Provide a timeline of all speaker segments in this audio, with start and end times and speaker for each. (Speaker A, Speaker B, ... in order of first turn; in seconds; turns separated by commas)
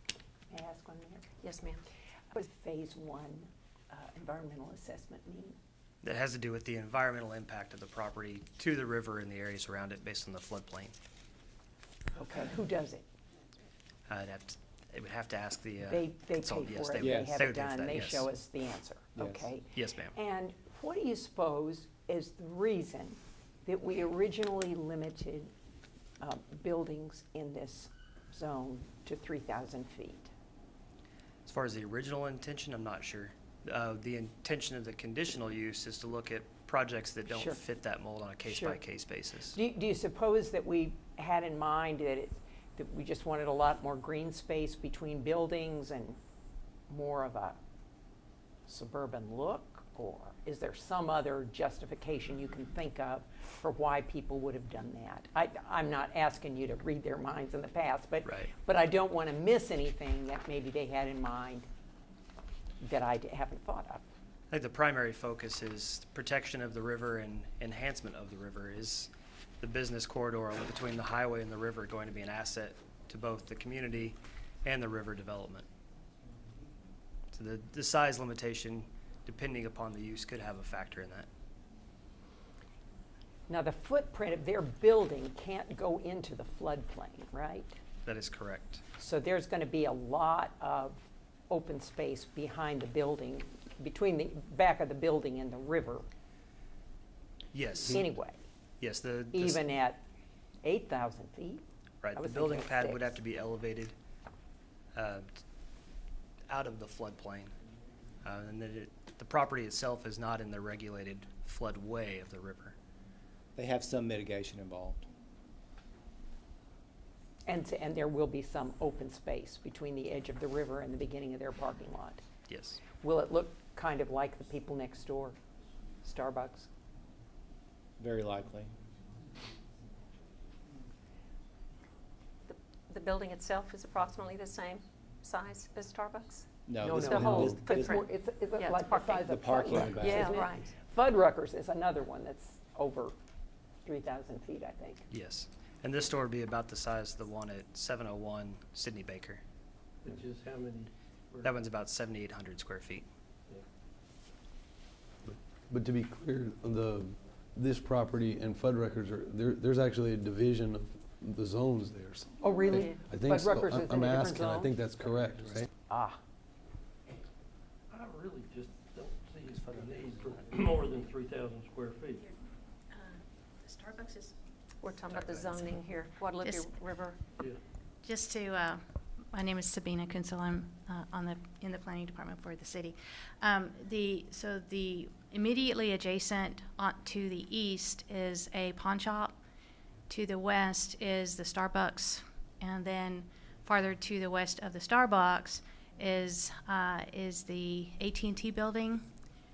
Speaker A: 0.5-1.3, Speaker B: 1.4-1.8, Speaker A: 2.3-5.6, Speaker C: 6.0-10.9, Speaker A: 12.2-13.1, Speaker C: 14.1-18.3, Speaker A: 15.9-25.5, Speaker D: 17.0-17.4, Speaker D: 19.2-19.5, Speaker C: 19.7-20.1, Speaker A: 26.2-30.3, Speaker C: 31.5-39.6, Speaker A: 37.3-37.6, Speaker A: 38.5-38.8, Speaker A: 39.5-46.2, Speaker A: 46.9-47.6, Speaker A: 48.7-61.7, Speaker A: 62.8-64.0, Speaker C: 64.5-75.7, Speaker C: 77.3-81.3, Speaker A: 83.5-87.8, Speaker C: 88.0-88.8, Speaker A: 89.0-96.1, Speaker C: 97.5-98.1, Speaker A: 97.9-98.4, Speaker C: 98.8-99.6, Speaker A: 99.3-100.0, Speaker A: 100.6-101.6, Speaker C: 102.0-104.0, Speaker A: 102.2-103.2, Speaker C: 105.0-105.4, Speaker C: 106.5-107.5, Speaker C: 108.2-112.8, Speaker D: 113.6-115.1, Speaker A: 117.5-122.2, Speaker C: 122.5-122.8, Speaker A: 123.0-125.4, Speaker A: 126.0-126.7, Speaker D: 128.0-128.7, Speaker B: 132.5-140.7, Speaker D: 136.7-138.0, Speaker A: 136.8-143.2, Speaker D: 139.2-140.5, Speaker A: 143.8-145.1, Speaker C: 145.1-149.4, Speaker E: 150.0-151.5, Speaker C: 151.4-153.1, Speaker F: 155.2-165.7, Speaker A: 162.4-164.7, Speaker E: 165.0-165.7, Speaker A: 165.9-166.2, Speaker E: 167.9-172.3, Speaker G: 172.9-174.3, Speaker B: 174.8-177.2, Speaker C: 175.1-175.7, Speaker G: 176.4-176.8, Speaker G: 178.0-189.4, Speaker G: 190.1-199.1